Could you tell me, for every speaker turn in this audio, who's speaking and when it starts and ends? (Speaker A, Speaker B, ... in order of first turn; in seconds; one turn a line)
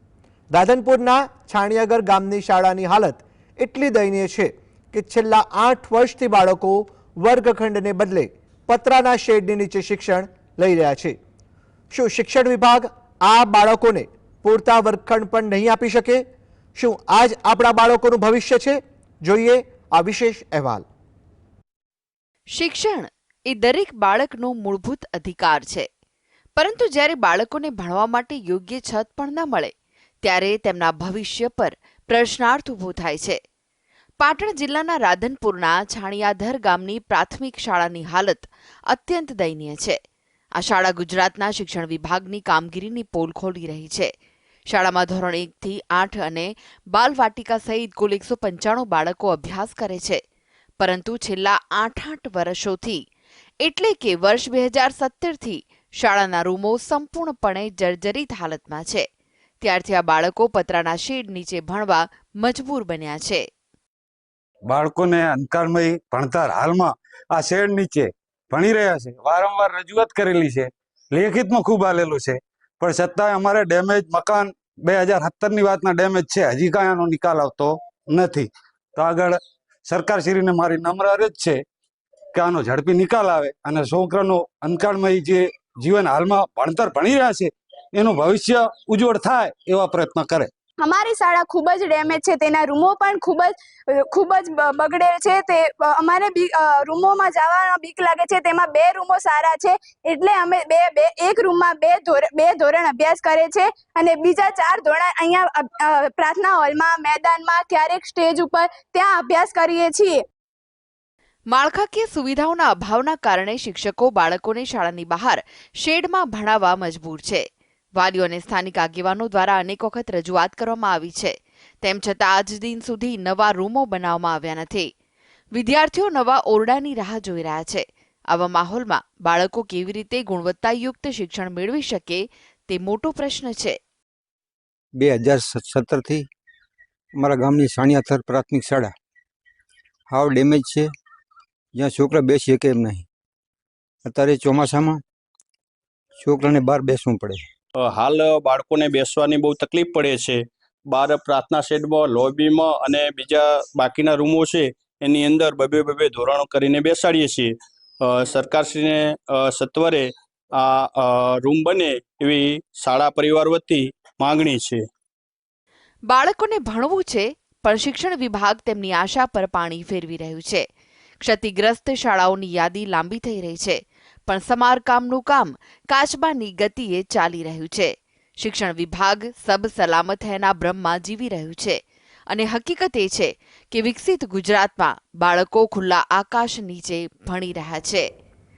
Speaker A: 0.5-11.2
Speaker A: 11.9-16.2
Speaker A: 16.8-20.9
Speaker B: 22.6-25.9
Speaker B: 26.6-29.7
Speaker B: 30.2-33.4
Speaker B: 34.2-40.0
Speaker B: 40.6-44.1
Speaker B: 44.7-50.2
Speaker B: 50.8-53.0
Speaker B: 53.6-59.0
Speaker B: 59.6-63.5
Speaker C: 64.7-81.6
Speaker C: 82.3-90.5
Speaker D: 90.8-93.5
Speaker D: 94.1-110.2
Speaker B: 111.5-117.4
Speaker B: 118.0-124.9
Speaker B: 125.5-133.8
Speaker E: 135.0-136.3
Speaker E: 137.2-138.9
Speaker E: 140.1-140.9
Speaker E: 141.8-143.1
Speaker E: 144.1-145.0
Speaker E: 146.2-147.4
Speaker F: 147.8-164.8
Speaker B: 166.1-170.6
Speaker B: 171.2-181.8
Speaker B: 182.3-188.1